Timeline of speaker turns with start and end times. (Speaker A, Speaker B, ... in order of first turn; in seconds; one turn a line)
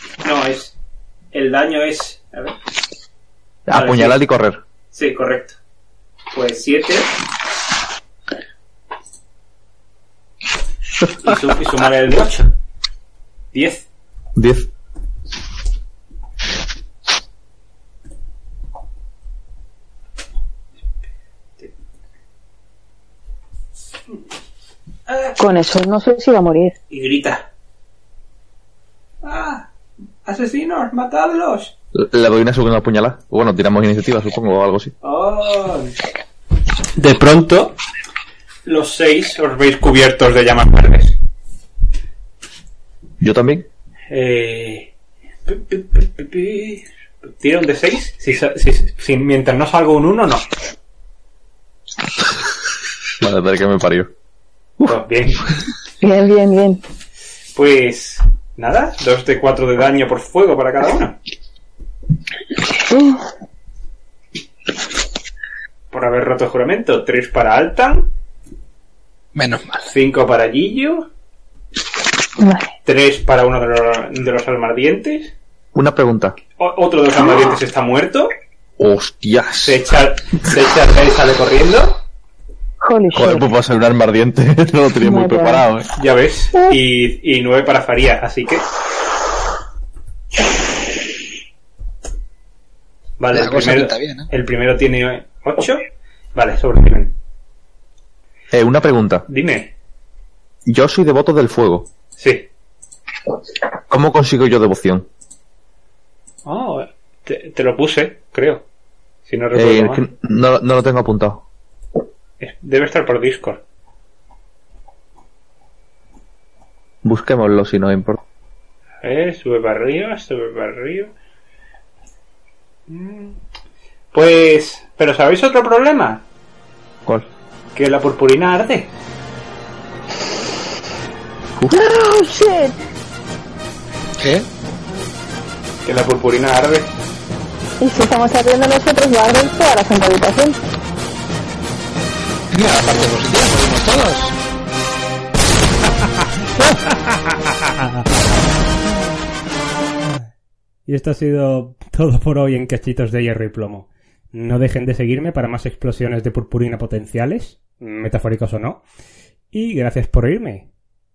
Speaker A: 0.2-0.7
Speaker A: 1.3-2.5
Speaker B: 3.7-4.6
Speaker A: 3.7-4.2
Speaker A: 4.9-5.5
Speaker A: 6.3-7.1
Speaker A: 11.2-12.5
Speaker A: 13.5-13.9
Speaker B: 14.3-14.7
Speaker A: 25.1-25.4
Speaker C: 25.4-26.7
Speaker A: 26.9-27.4
Speaker A: 29.2-29.7
Speaker A: 30.2-31.7
Speaker B: 31.9-34.9
Speaker A: 35.0-35.9
Speaker A: 37.0-37.8
Speaker A: 38.6-41.1
Speaker B: 43.2-43.6
Speaker A: 44.1-44.9
Speaker A: 45.5-50.5
Speaker B: 53.2-54.1
Speaker A: 54.8-55.4
Speaker C: 56.0-56.8
Speaker A: 57.5-61.2
Speaker C: 62.6-63.2
Speaker A: 65.9-68.1
Speaker D: 69.3-69.9
Speaker A: 69.8-71.1
Speaker C: 72.4-72.7
Speaker A: 72.8-75.3
Speaker B: 75.7-76.4
Speaker A: 76.6-78.3
Speaker B: 78.8-79.8
Speaker A: 79.6-82.0
Speaker C: 82.8-83.5
Speaker B: 83.1-85.9
Speaker C: 85.0-85.7
Speaker A: 85.9-88.6
Speaker A: 93.2-95.8
Speaker D: 93.3-94.3
Speaker A: 96.3-97.1
Speaker B: 98.5-99.3
Speaker A: 99.3-99.7
Speaker B: 100.7-101.9
Speaker A: 102.2-102.5
Speaker B: 103.9-105.1
Speaker A: 106.5-108.6
Speaker A: 109.2-110.0
Speaker B: 109.5-111.4
Speaker A: 112.4-113.6
Speaker B: 117.0-118.2
Speaker A: 119.0-121.1
Speaker A: 122.9-123.4
Speaker A: 124.1-126.2
Speaker A: 127.7-128.9
Speaker C: 131.7-132.7
Speaker D: 134.2-134.5
Speaker A: 135.8-136.9
Speaker C: 137.8-140.6
Speaker D: 142.5-144.3
Speaker E: 147.7-148.1
Speaker E: 150.9-158.8
Speaker E: 159.5-160.7